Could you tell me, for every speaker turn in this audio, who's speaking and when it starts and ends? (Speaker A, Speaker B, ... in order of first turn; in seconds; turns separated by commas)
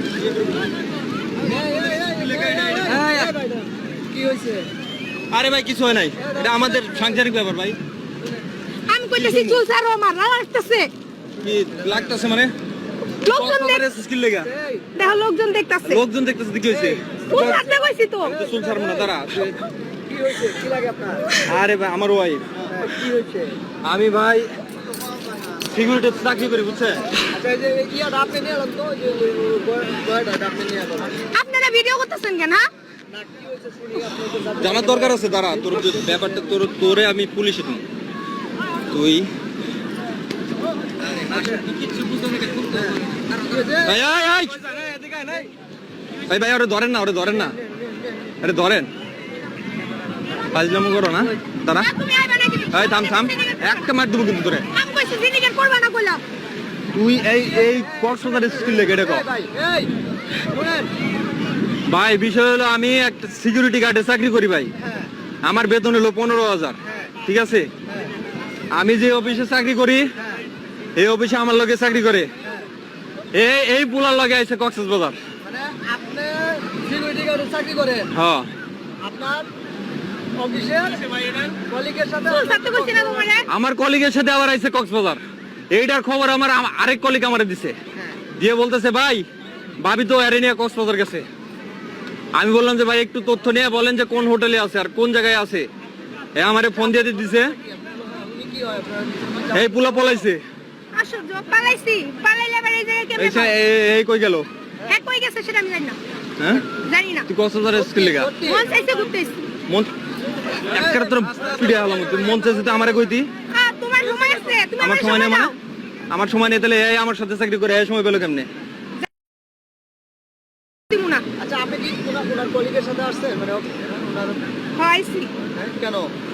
Speaker A: 1.4-4.7, Speaker B: 1.7-3.3, Speaker B: 5.3-7.8, Speaker A: 6.2-7.2, Speaker C: 8.9-10.9, Speaker B: 9.2-9.6, Speaker B: 11.4-12.5, Speaker C: 13.1-13.8, Speaker B: 13.2-14.5, Speaker A: 14.4-14.8, Speaker C: 14.9-16.0, Speaker B: 15.8-17.7, Speaker C: 17.2-18.4, Speaker B: 18.2-19.6, Speaker A: 20.1-21.4, Speaker B: 21.4-22.4, Speaker A: 22.7-23.6, Speaker B: 23.8-24.5, Speaker B: 25.7-27.0, Speaker A: 27.3-31.2, Speaker C: 31.3-32.6, Speaker A: 33.1-36.2, Speaker B: 34.6-37.8, Speaker B: 38.9-39.3, Speaker A: 43.5-43.9, Speaker B: 43.8-44.6, Speaker B: 46.3-47.5, Speaker B: 48.4-48.9, Speaker B: 50.5-51.9, Speaker C: 51.7-53.9, Speaker B: 52.7-54.6, Speaker C: 54.7-56.2, Speaker B: 56.9-59.3, Speaker A: 58.9-59.9, Speaker A: 60.5-60.9, Speaker B: 61.9-64.7, Speaker B: 65.4-67.7, Speaker B: 68.7-70.1, Speaker B: 70.9-72.3, Speaker B: 73.3-75.2, Speaker A: 75.4-78.1, Speaker B: 78.1-78.5, Speaker A: 79.0-79.5, Speaker A: 80.4-81.0, Speaker A: 81.6-83.4, Speaker C: 82.3-83.5, Speaker B: 83.5-87.8, Speaker B: 88.3-89.2, Speaker B: 89.8-91.2, Speaker B: 92.3-95.7, Speaker B: 96.3-97.5, Speaker A: 97.5-100.0, Speaker B: 99.5-100.4, Speaker C: 100.9-103.5, Speaker B: 103.2-104.5, Speaker C: 104.8-106.0, Speaker B: 106.4-106.6, Speaker C: 106.7-107.3, Speaker B: 107.3-108.3, Speaker A: 107.7-108.7, Speaker C: 108.4-109.4, Speaker B: 110.7-113.3, Speaker C: 113.5-115.6, Speaker B: 114.8-115.5, Speaker B: 116.1-118.5, Speaker C: 120.9-121.2, Speaker A: 121.4-124.4, Speaker C: 124.7-125.3, Speaker A: 125.5-126.1